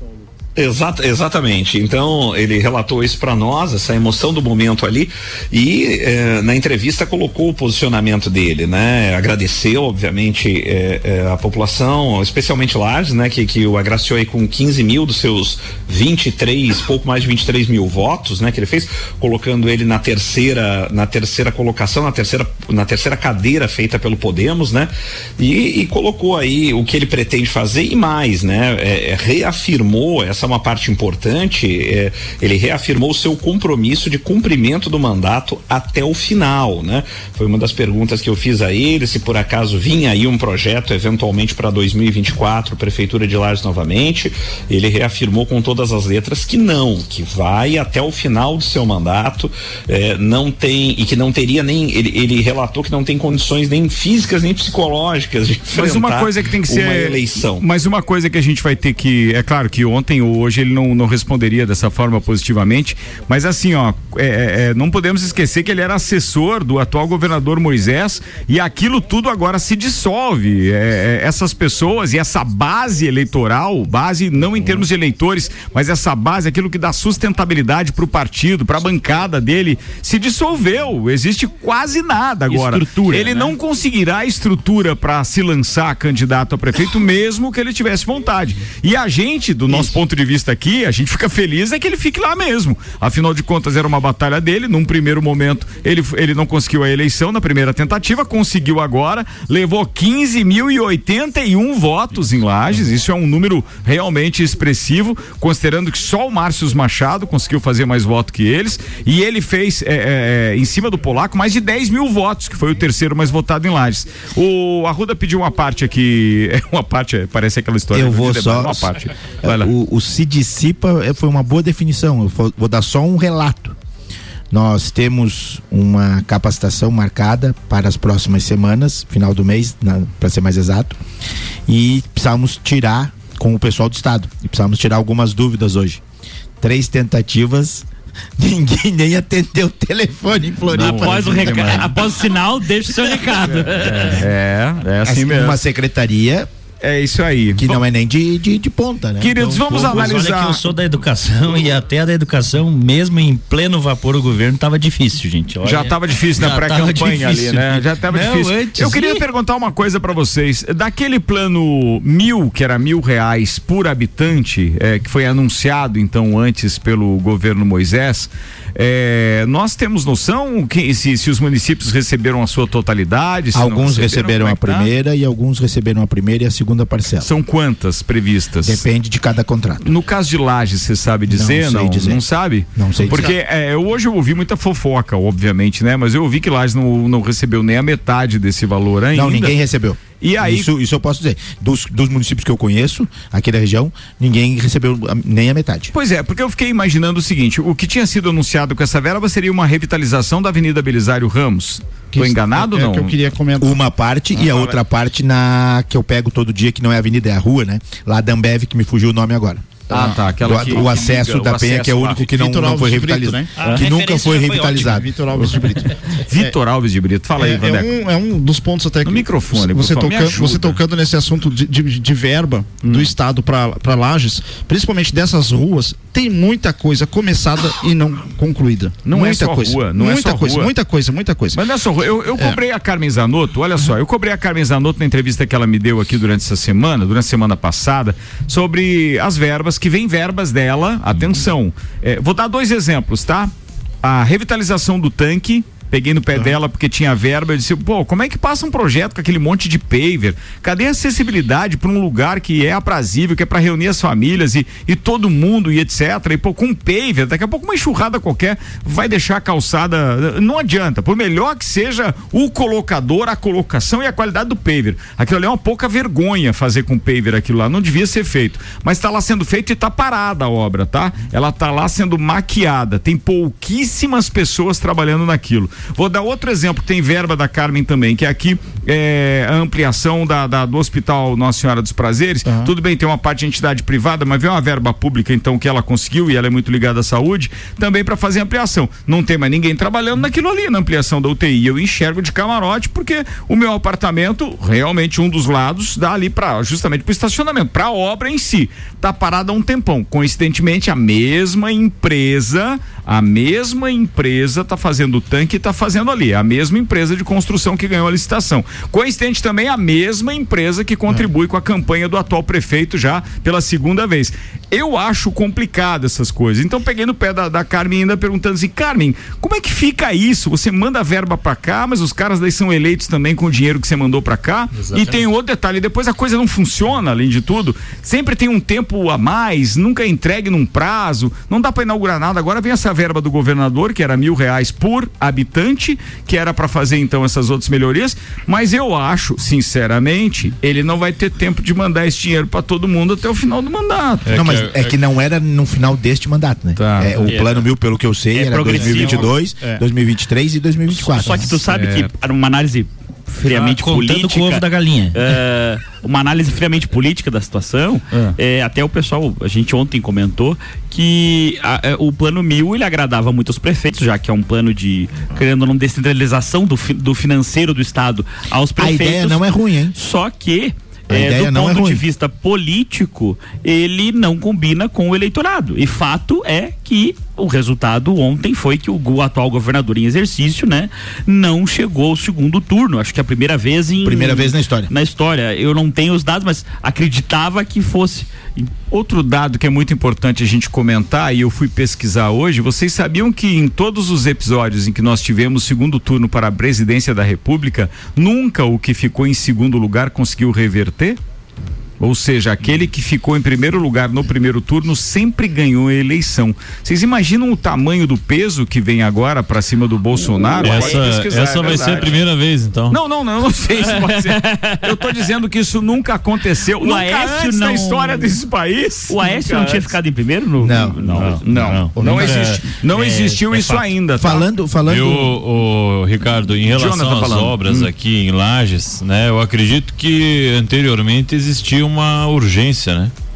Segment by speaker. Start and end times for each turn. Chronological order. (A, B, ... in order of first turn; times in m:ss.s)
0:00.6-0:57.7 A
0:55.7-1:59.7 B
1:22.5-1:23.5 C
1:57.9-2:03.8 D
2:04.5-2:11.0 D
2:11.7-2:16.0 D
2:16.6-2:17.8 D
2:18.4-2:21.9 D
2:20.7-2:21.9 B
2:20.8-2:24.2 C
2:23.4-2:25.6 B
2:25.0-2:26.5 D
2:26.8-2:27.8 B
2:27.6-2:30.0 D
2:29.2-2:30.6 B
2:29.4-2:39.2 E
2:35.6-2:54.9 B
2:53.5-2:57.3 D
2:57.2-2:58.8 B
2:58.6-2:59.9 D
2:59.8-3:09.5 B
3:01.3-3:02.2 D
3:02.8-3:03.3 D
3:09.1-3:15.9 D
3:10.2-3:10.7 B
3:15.9-3:23.1 B
3:22.1-3:23.8 F
3:23.6-3:35.1 D
3:24.3-3:24.8 B
3:29.9-3:32.4 B
3:32.3-3:33.5 F
3:33.5-3:35.0 E
3:34.8-3:36.5 F
3:36.3-3:37.9 B
3:37.4-3:51.6 F
3:39.0-3:40.8 B
3:42.8-3:43.1 B
3:49.0-3:50.7 B
3:51.5-4:03.5 B
4:04.0-5:44.4 B
5:24.7-5:25.2 E
5:44.2-5:45.0 G
5:44.3-5:51.6 D
5:46.8-5:47.4 B
5:48.3-5:49.8 C
5:51.0-6:28.7 C
5:51.6-5:52.1 B
5:53.4-5:55.3 E
6:08.8-6:10.0 D
6:11.1-6:12.0 D
6:24.0-6:24.9 D
6:28.9-6:41.2 B
6:42.0-6:52.2 B
6:50.6-6:53.0 G
6:52.9-6:59.9 B
6:54.0-6:54.9 C
6:56.8-6:58.4 C
6:59.1-7:01.4 C
7:00.6-7:01.0 D
7:01.0-7:03.9 E
7:01.2-7:04.4 B
7:04.2-7:05.4 D
7:04.8-7:13.1 G
7:06.6-7:07.9 B